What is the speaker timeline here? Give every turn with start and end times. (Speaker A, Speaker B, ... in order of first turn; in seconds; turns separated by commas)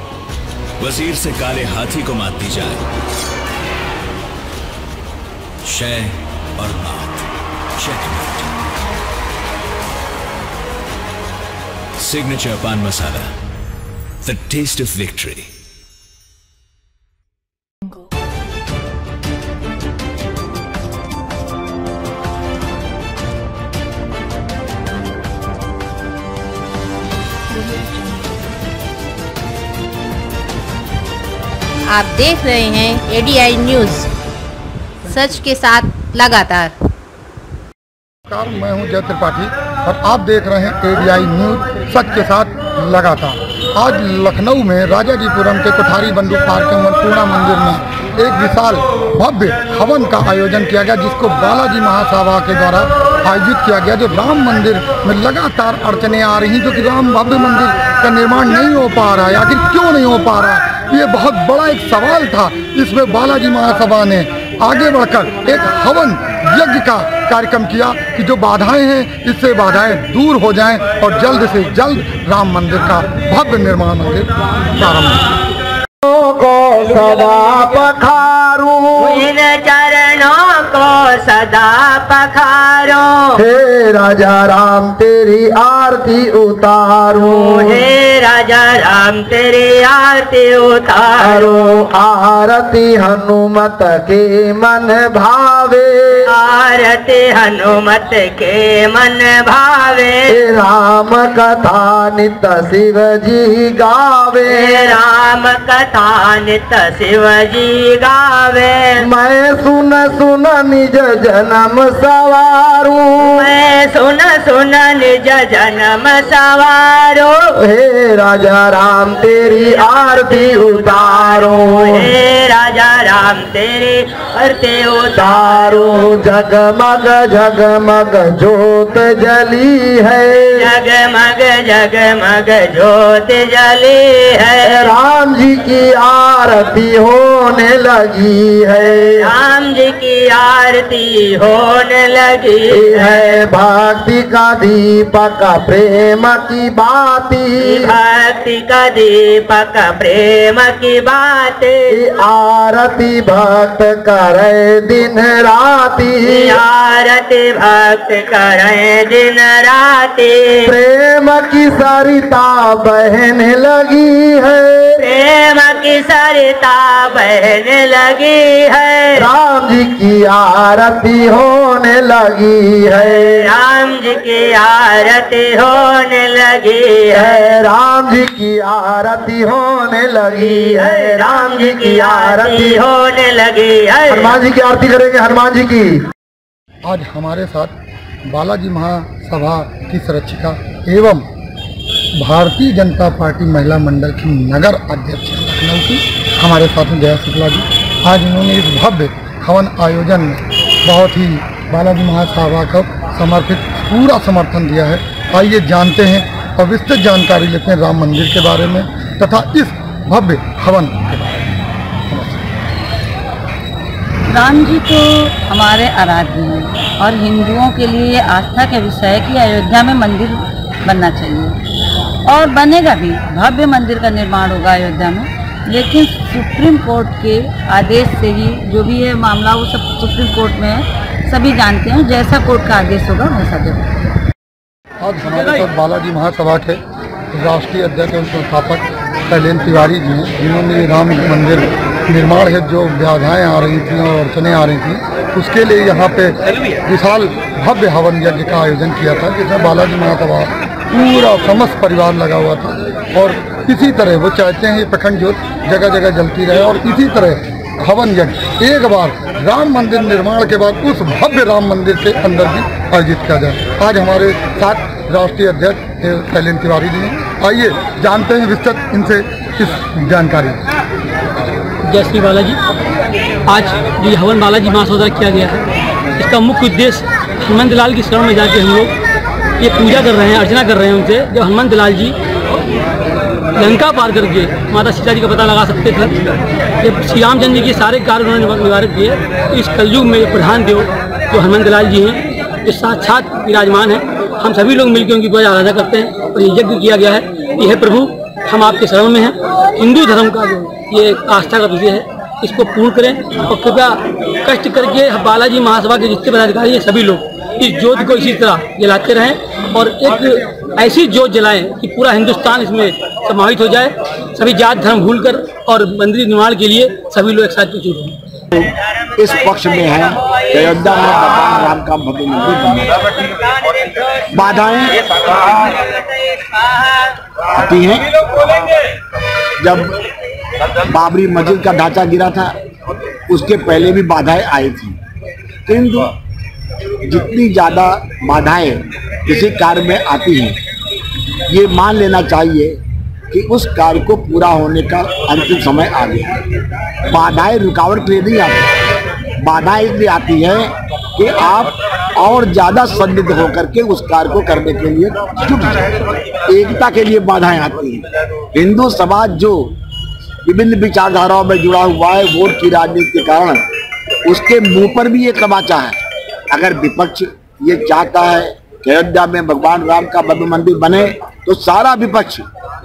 Speaker A: 0.8-2.8, Speaker A: 5.6-8.5, Speaker A: 12.0-13.3, Speaker A: 14.2-15.5, Speaker B: 31.9-34.1, Speaker B: 35.0-36.8, Speaker C: 38.3-75.2, Speaker D: 76.0-79.3, Speaker E: 77.0-77.6, Speaker E: 79.0-83.4, Speaker D: 83.3-87.9, Speaker E: 87.3-91.6, Speaker D: 91.2-96.3, Speaker E: 96.2-100.3, Speaker D: 100.3-105.0, Speaker E: 104.5-109.1, Speaker D: 109.0-113.5, Speaker E: 113.2-117.5, Speaker D: 117.6-122.1, Speaker E: 119.6-126.1, Speaker D: 125.2-130.7, Speaker E: 130.5-134.9, Speaker D: 134.6-139.3, Speaker E: 138.8-143.4, Speaker D: 142.7-147.9, Speaker E: 147.6-152.0, Speaker D: 151.9-156.6, Speaker E: 156.2-160.7, Speaker D: 160.7-165.0, Speaker E: 165.0-169.3, Speaker D: 169.2-173.5, Speaker E: 173.0-177.6, Speaker D: 177.1-182.8, Speaker E: 180.3-184.4, Speaker D: 184.1-185.9, Speaker C: 186.9-187.7, Speaker C: 188.3-191.2, Speaker C: 192.2-211.0, Speaker C: 212.1-212.4, Speaker F: 214.3-221.6, Speaker F: 222.3-234.1, Speaker C: 235.0-236.8, Speaker G: 235.4-235.7, Speaker C: 237.3-246.4, Speaker C: 246.9-270.6, Speaker G: 271.9-272.6, Speaker G: 273.5-275.6, Speaker G: 276.2-278.9, Speaker G: 279.6-282.2, Speaker G: 283.6-286.2, Speaker G: 286.8-318.2, Speaker H: 318.5-323.1, Speaker H: 324.3-325.6, Speaker H: 327.5-328.6, Speaker H: 329.6-329.9, Speaker H: 330.8-332.6, Speaker H: 333.3-335.0, Speaker H: 335.7-336.1, Speaker H: 337.0-340.6, Speaker H: 341.5-342.8, Speaker H: 343.3-346.4, Speaker H: 347.1-348.8, Speaker H: 349.4-359.8, Speaker H: 360.4-363.7, Speaker H: 364.2-366.0, Speaker H: 366.5-372.5